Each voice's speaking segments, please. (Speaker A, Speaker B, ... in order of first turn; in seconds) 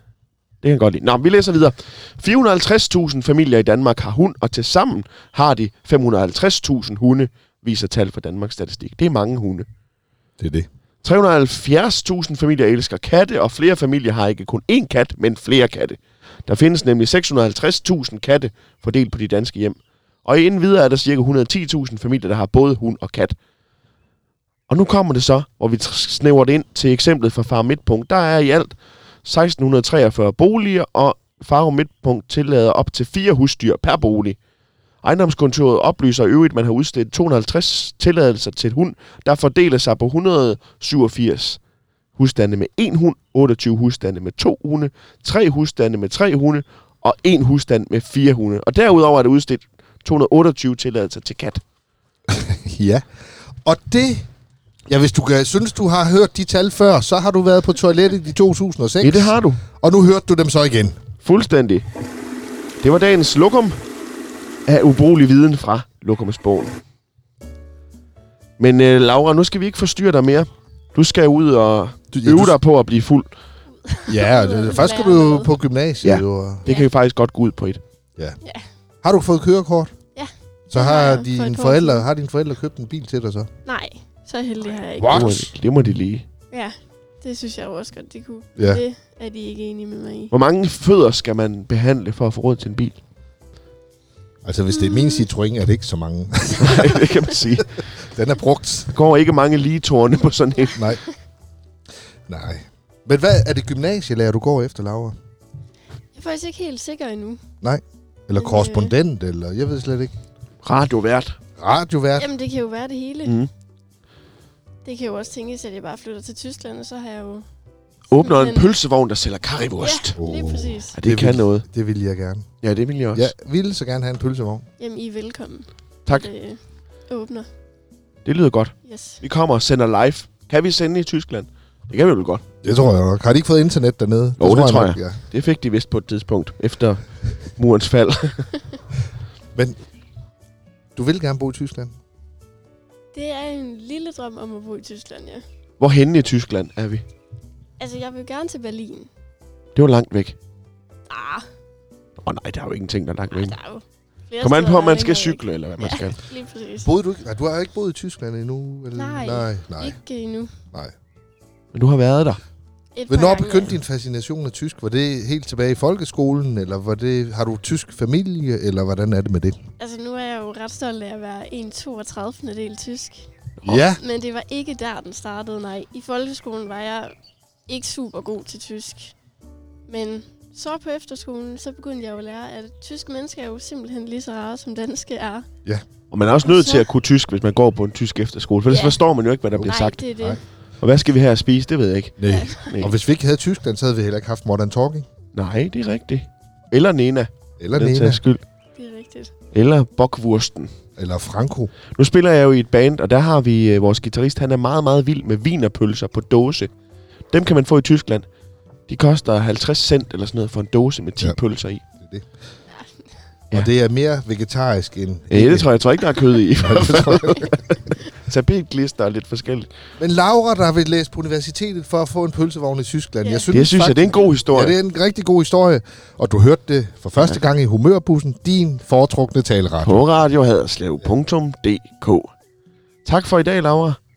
Speaker A: 0.6-9.7, 11.0-23.4, 24.7-34.4, 35.0-41.6, 42.1-51.6, 59.0-59.6, 61.2-61.8, 62.8-63.8, 64.7-66.8, 68.6-73.3, 76.0-77.8, 85.1-86.2, 90.3-93.0, 96.6-97.8, 98.9-100.8, 110.6-111.4, 118.1-120.2, 121.0-121.6, 122.6-123.3, 128.2-132.4, 134.4-137.0, 137.6-138.5, 145.8-147.0, 149.8-150.4, 152.2-153.5, 154.4-156.2, 161.7-162.4, 186.1-190.0, 190.8-192.9, 195.3-198.4, 199.5-200.7, 201.9-206.7, 207.3-208.2, 208.9-211.8, 215.3-219.7, 223.5-224.8, 229.8-232.3, 233.0-234.0
Speaker B: 10.4-10.7, 52.3-53.0, 53.6-54.3, 54.9-61.0, 72.1-72.6, 74.1-76.7, 79.0-79.9, 80.7-83.5, 85.0-85.5, 88.5-88.8, 94.4-97.1, 98.0-98.9, 100.7-101.0, 102.3-105.1, 107.6-110.1, 111.6-112.3, 120.2-122.5, 123.1-124.7, 132.6-135.2, 140.9-141.9, 156.8-159.9, 163.1-169.6, 173.6-174.0, 192.2-195.1, 197.6-198.2, 201.0-201.7, 212.0-212.2, 213.5-215.7, 216.6-217.5, 220.0-230.0
Speaker C: 73.8-75.5, 80.1-82.1, 83.7-85.4, 86.5-90.3, 94.9-95.2, 106.1-107.4, 108.3-108.9, 112.2-113.4, 114.8-117.4, 118.2-118.7, 119.8-121.0, 124.8-127.5, 128.8-129.2, 143.1-145.4, 147.8-149.1, 151.1-151.5, 153.3-156.9, 158.9-160.5, 162.9-163.7, 169.8-177.1, 177.7-179.1, 179.9-185.5, 186.4-186.9, 188.7-189.0, 189.6-190.4, 192.2-192.7, 198.7-199.3, 212.7-213.1, 223.2-223.6